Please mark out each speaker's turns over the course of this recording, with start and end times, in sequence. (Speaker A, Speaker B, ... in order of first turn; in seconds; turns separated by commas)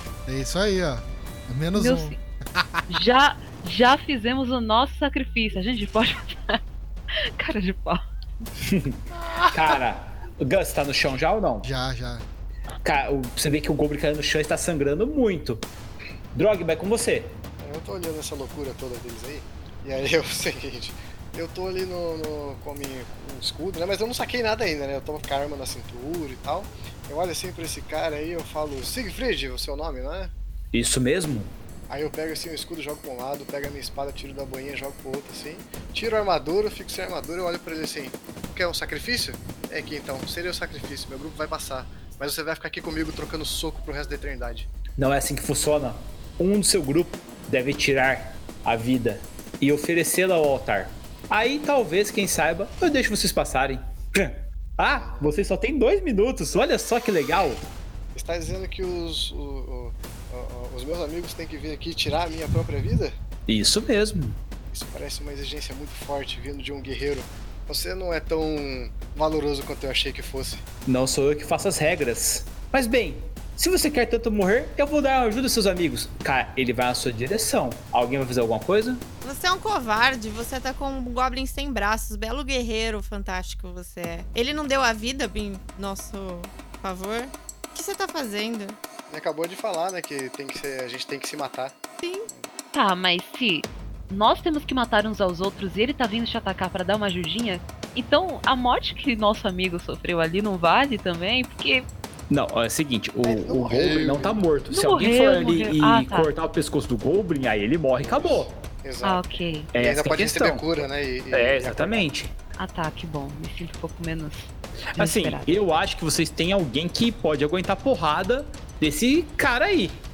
Speaker A: 0.3-2.8, Speaker B: 1.8-2.2, Speaker B: 2.9-6.6, Speaker B: 7.4-8.0, Speaker C: 8.6-11.7, Speaker A: 11.6-12.2, Speaker C: 12.8-15.7, Speaker C: 16.3-17.4, Speaker D: 17.6-30.3, Speaker C: 30.7-31.6, Speaker D: 31.9-44.7, Speaker C: 45.0-57.7, Speaker D: 55.0-55.3, Speaker D: 58.1-63.1, Speaker C: 63.5-64.4, Speaker D: 64.7-70.6, Speaker C: 70.9-79.0, Speaker E: 79.2-88.8, Speaker D: 89.1-91.8, Speaker E: 92.0-92.3, Speaker B: 92.7-101.9, Speaker C: 102.3-108.6, Speaker D: 103.2-104.4, Speaker B: 104.7-106.3, Speaker D: 108.0-112.1, Speaker B: 109.0-109.7, Speaker C: 109.7-112.3, Speaker B: 112.6-115.5, Speaker C: 114.9-120.0